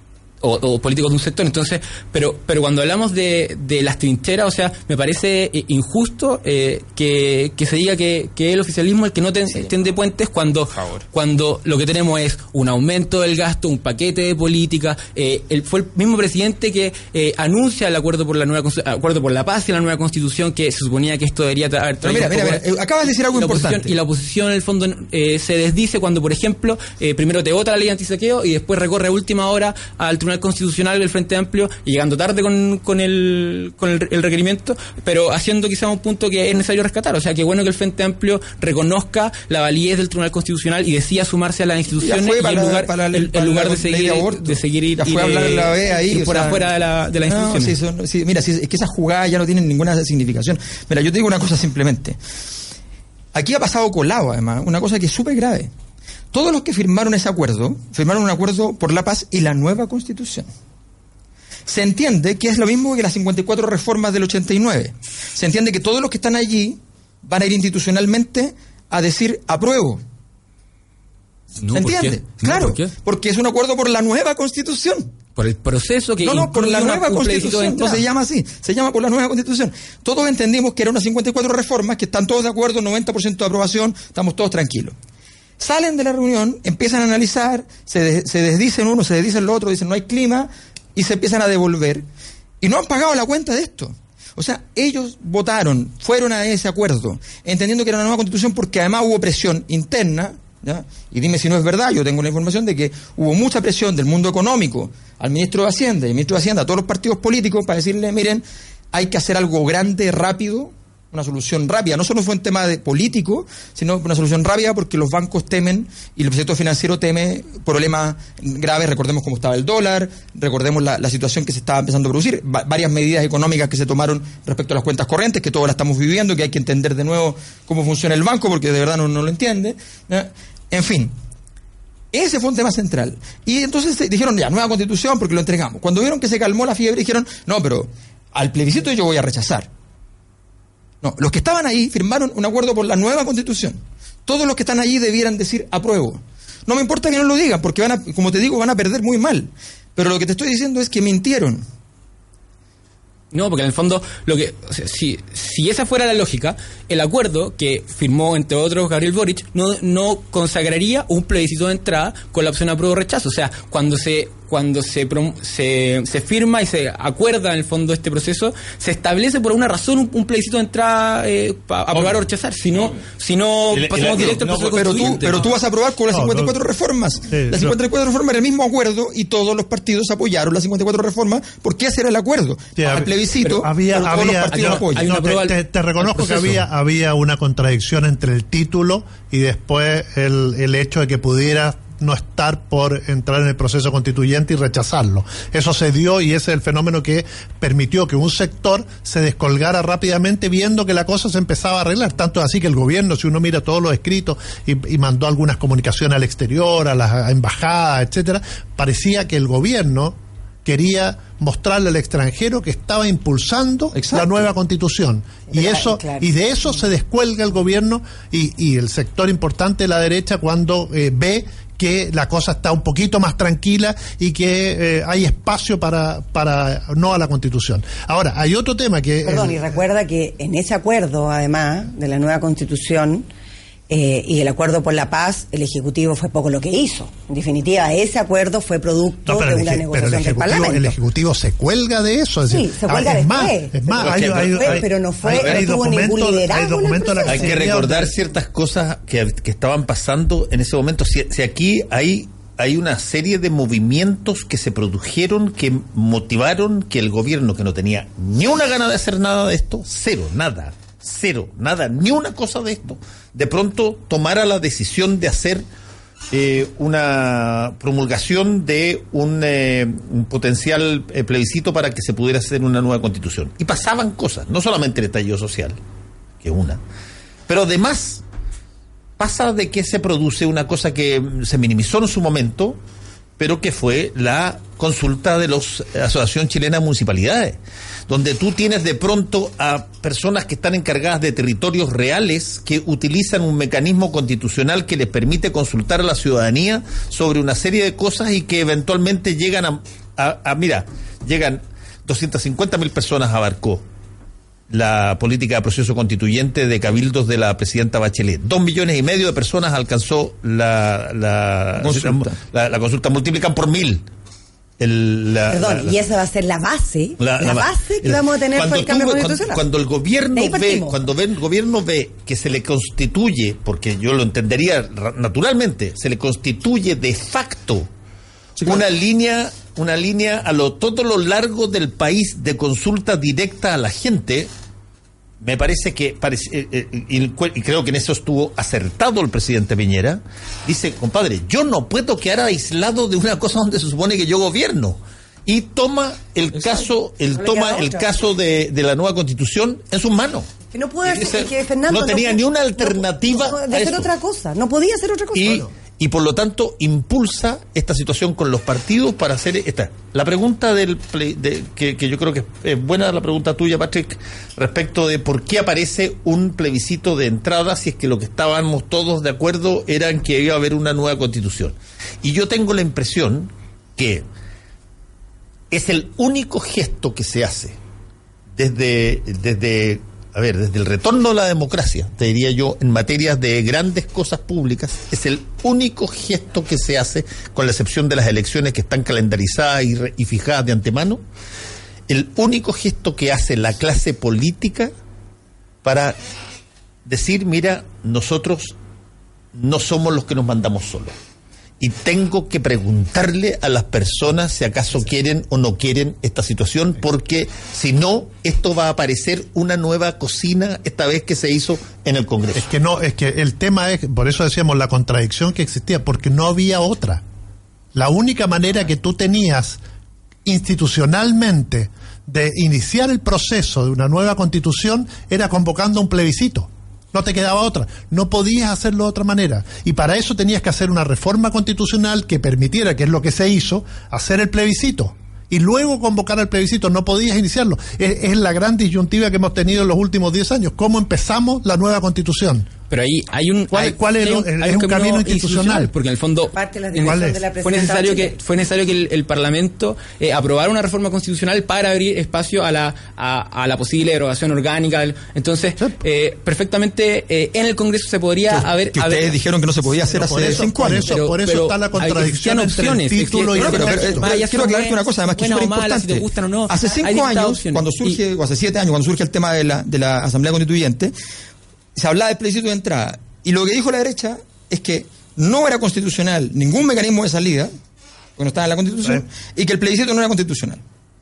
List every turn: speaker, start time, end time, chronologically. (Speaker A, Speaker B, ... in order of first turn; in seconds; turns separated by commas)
Speaker A: 0.4-47.8, Speaker B: 10.7-11.0, Speaker B: 22.0-23.9, Speaker B: 42.0-46.6, Speaker B: 47.2-52.2, Speaker B: 53.3-55.7, Speaker B: 56.3-60.5, Speaker B: 61.7-70.0, Speaker A: 71.6-72.9, Speaker B: 71.7-75.1, Speaker A: 75.4-78.0, Speaker B: 76.2-84.9, Speaker B: 85.6-92.0, Speaker B: 92.6-131.1, Speaker B: 132.1-139.7, Speaker B: 141.0-151.6, Speaker A: 153.3-175.4, Speaker C: 171.9-172.2, Speaker C: 173.7-175.4, Speaker B: 173.7-185.1, Speaker D: 176.1-176.6, Speaker D: 177.3-177.8, Speaker D: 182.8-229.8, Speaker A: 183.4-186.6, Speaker B: 213.9-214.4, Speaker E: 215.5-216.7, Speaker E: 229.2-233.3, Speaker E: 233.9-240.9, Speaker D: 239.3-248.1, Speaker E: 242.5-247.7, Speaker C: 244.0-245.6, Speaker C: 247.2-265.6, Speaker C: 266.3-275.8, Speaker C: 276.4-276.8, Speaker C: 277.5-278.2, Speaker C: 279.2-282.8, Speaker C: 283.4-303.8, Speaker C: 304.7-314.1, Speaker B: 311.8-312.4, Speaker C: 314.8-316.0, Speaker E: 315.5-319.6, Speaker C: 317.2-327.9, Speaker E: 320.3-321.0, Speaker C: 328.6-334.5, Speaker C: 335.4-350.4, Speaker B: 346.5-346.9, Speaker E: 347.3-348.1, Speaker E: 350.7-355.7, Speaker C: 351.1-354.1, Speaker C: 355.3-374.2, Speaker C: 375.7-377.8, Speaker C: 378.6-391.2, Speaker C: 392.1-394.9, Speaker C: 395.8-396.2, Speaker C: 397.1-398.7, Speaker C: 399.6-401.1, Speaker C: 401.8-412.7, Speaker D: 412.6-417.2, Speaker D: 417.9-419.8, Speaker D: 420.4-442.7, Speaker A: 442.9-459.3, Speaker D: 443.7-445.9, Speaker E: 446.5-448.3, Speaker D: 447.0-447.4, Speaker B: 458.5-461.1, Speaker D: 460.1-464.3, Speaker A: 461.1-468.2, Speaker B: 463.6-471.1, Speaker B: 471.9-477.7, Speaker B: 478.4-480.8